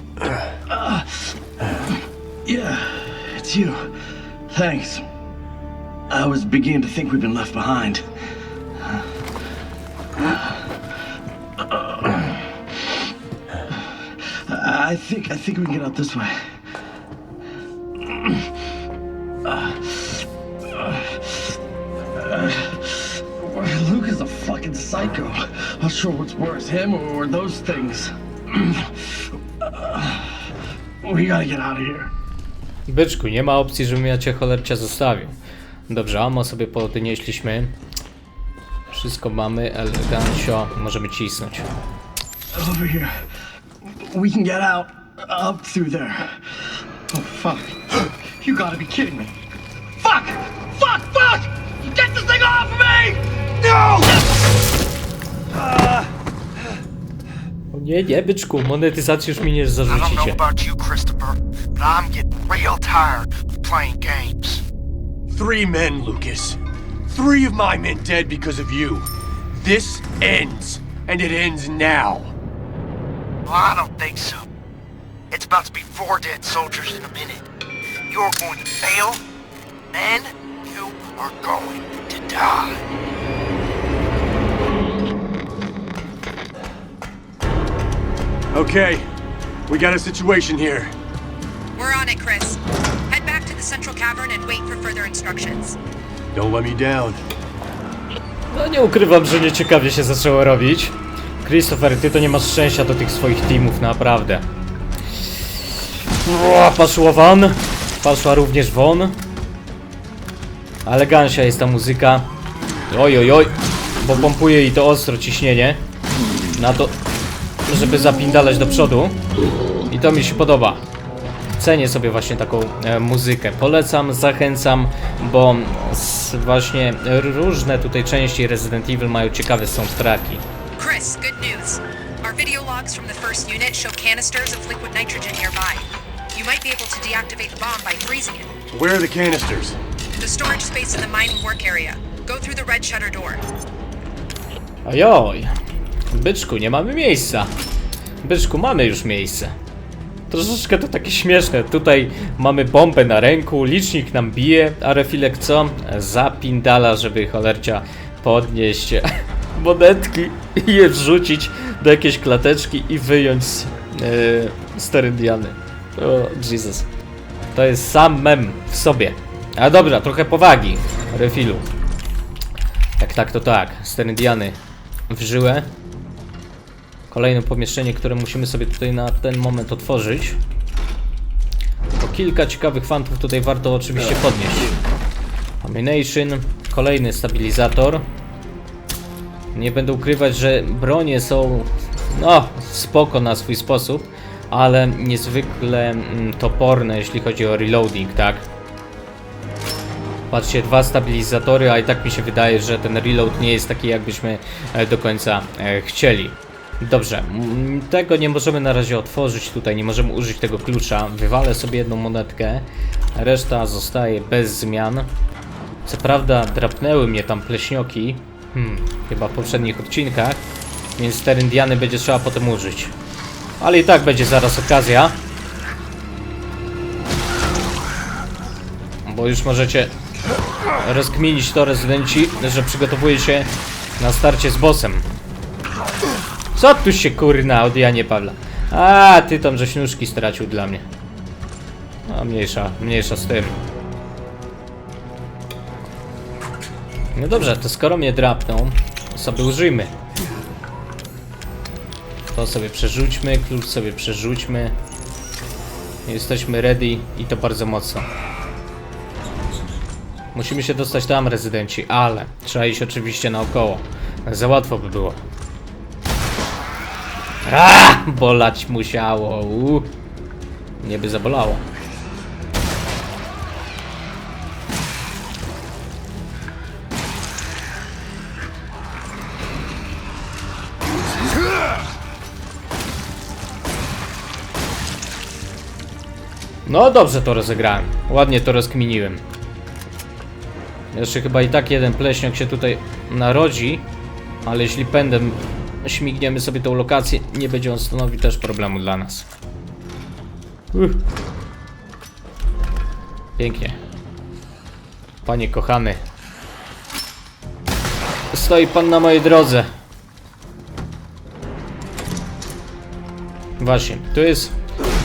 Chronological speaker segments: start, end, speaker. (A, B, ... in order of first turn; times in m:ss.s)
0:00.7-0:01.2 A
0:02.4-0:04.0 A
0:04.5-0:05.1 A
0:06.1-0:08.1 A
0:10.2-0:10.5 A
0:11.6-0:12.5 A
0:14.2-0:16.5 A
0:18.1-0:18.4 A
0:19.4-0:21.5 A
0:22.2-0:29.1 A
0:29.6-0:30.4 A
0:31.0-0:32.1 A
0:32.9-0:35.4 B
0:35.9-0:37.7 B
0:38.9-0:41.7 B
0:42.5-0:43.2 A
0:43.8-0:49.4 A
0:50.0-0:54.3 A
0:57.7-1:00.5 B
1:00.1-1:04.6 C
1:05.3-1:06.6 D
1:07.1-1:12.4 D
1:13.5-1:14.5 C
1:15.3-1:17.4 C
1:18.1-1:19.2 C
1:19.9-1:22.7 C
1:22.0-1:22.7 D
1:28.5-1:29.1 D
1:29.7-1:30.9 D
1:31.8-1:35.8 E
1:36.3-1:37.2 D
1:38.5-1:44.5 B
1:46.2-1:49.2 B
1:50.8-1:52.3 B
1:52.9-1:55.8 B
1:56.6-1:57.0 B
1:57.7-1:59.2 B
1:59.9-2:00.8 B
2:01.6-2:10.4 B
2:10.8-2:18.5 E
2:18.7-2:19.8 D
2:20.2-2:23.4 E
2:24.8-2:25.5 B
2:26.1-2:27.5 B
2:28.2-2:29.6 B
2:30.3-2:46.9 B
2:47.5-2:51.7 B
2:53.0-2:54.6 B
2:55.1-2:55.7 B
2:57.1-3:00.4 B
3:02.0-3:04.8 B
3:05.6-3:08.1 B
3:09.5-3:18.4 B
3:20.3-3:35.1 B
3:35.9-3:40.4 B
3:41.0-3:42.9 B
3:43.6-3:45.2 B
3:49.0-3:49.9 B
3:50.8-3:55.1 B
3:56.6-4:00.9 B
4:02.1-4:03.6 B
4:07.2-4:09.9 B
4:12.3-4:14.8 B
4:16.1-4:18.1 B
4:20.3-4:25.2 B
4:27.4-4:29.9 B
4:30.8-4:31.7 B
4:46.7-4:49.2 B
4:50.9-4:53.9 B
4:54.4-4:59.3 B
5:00.7-5:01.0 B
5:03.4-5:03.8 B
5:05.2-5:06.0 B
5:08.3-5:09.7 B
5:13.6-5:14.6 B